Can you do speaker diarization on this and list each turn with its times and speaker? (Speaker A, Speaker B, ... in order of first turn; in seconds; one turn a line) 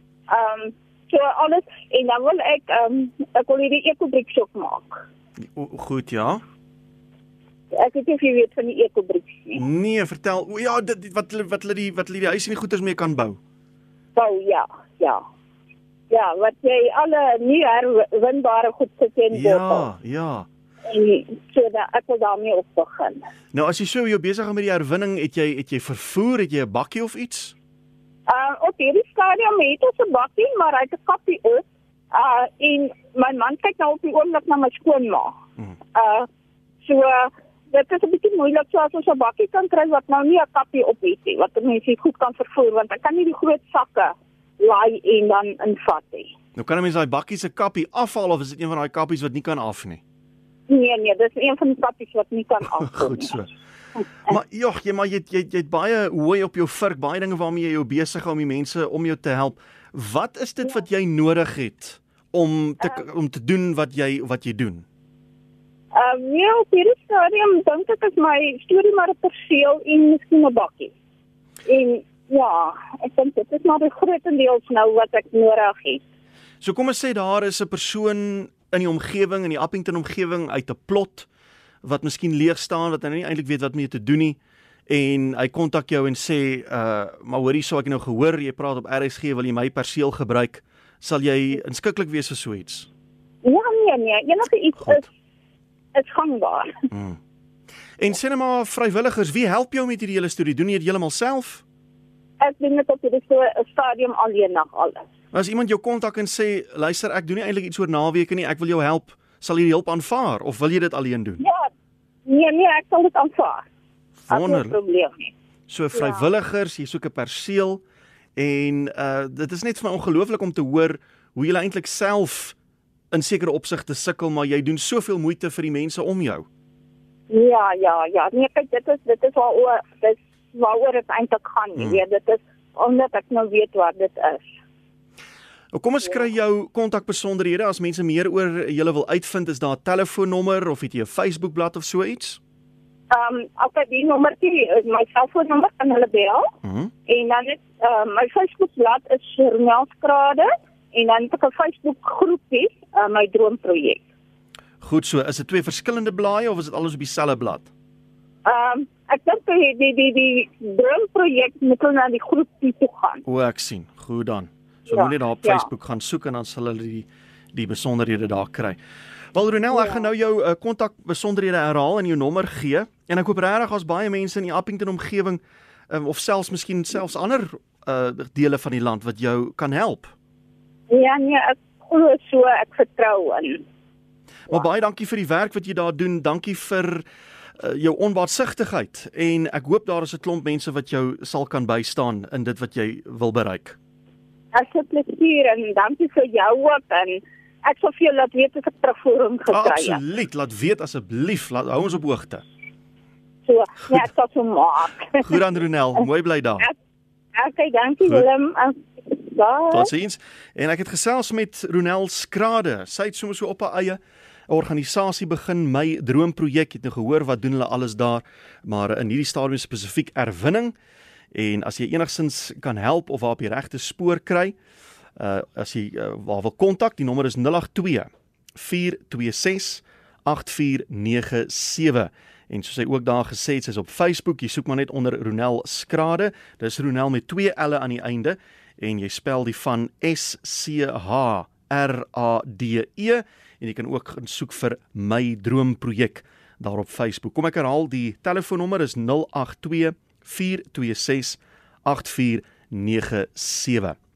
Speaker A: 0.3-5.1
Speaker B: 5.5-6.4
Speaker A: 7.7-9.6
Speaker B: 9.6-13.4
Speaker A: 14.2-15.2
Speaker A: 16.1-19.9
Speaker B: 19.3-20.5
Speaker A: 20.9-23.2
Speaker B: 23.5-27.5
Speaker A: 28.3-35.3
Speaker A: 36.0-36.3
Speaker A: 36.8-46.3
Speaker B: 46.6-50.0
Speaker A: 50.7-53.4
Speaker B: 52.8-53.5
Speaker B: 54.3-64.8
Speaker A: 65.9-70.9
Speaker A: 71.7-76.0
Speaker B: 76.6-81.3
Speaker B: 81.8-92.9
Speaker A: 93.4-95.1
Speaker A: 96.0-96.7
Speaker B: 96.9-97.2
Speaker B: 98.0-101.6
Speaker A: 102.4-105.1
Speaker B: 105.3-111.4
Speaker A: 111.4-111.7
Speaker A: 112.3-113.7
Speaker B: 114.2-114.8
Speaker A: 114.3-115.3
Speaker B: 115.7-117.8
Speaker A: 115.9-116.2
Speaker B: 118.4-122.6
Speaker B: 123.1-126.5
Speaker A: 127.3-134.5
Speaker B: 135.7-142.4
Speaker A: 143.1-146.5
Speaker B: 146.6-146.9
Speaker A: 147.1-154.0
Speaker B: 154.8-157.7
Speaker A: 158.4-163.2
Speaker B: 163.2-168.8
Speaker A: 164.9-165.7
Speaker B: 169.3-180.1
Speaker A: 169.7-170.0
Speaker A: 180.9-183.6
Speaker B: 184.5-187.0
Speaker B: 187.6-193.8
Speaker A: 194.5-200.0
Speaker B: 199.5-202.4
Speaker A: 203.4-205.3
Speaker B: 205.2-206.7
Speaker A: 207.3-209.9
Speaker B: 209.7-220.8
Speaker B: 221.3-224.6
Speaker B: 225.2-254.0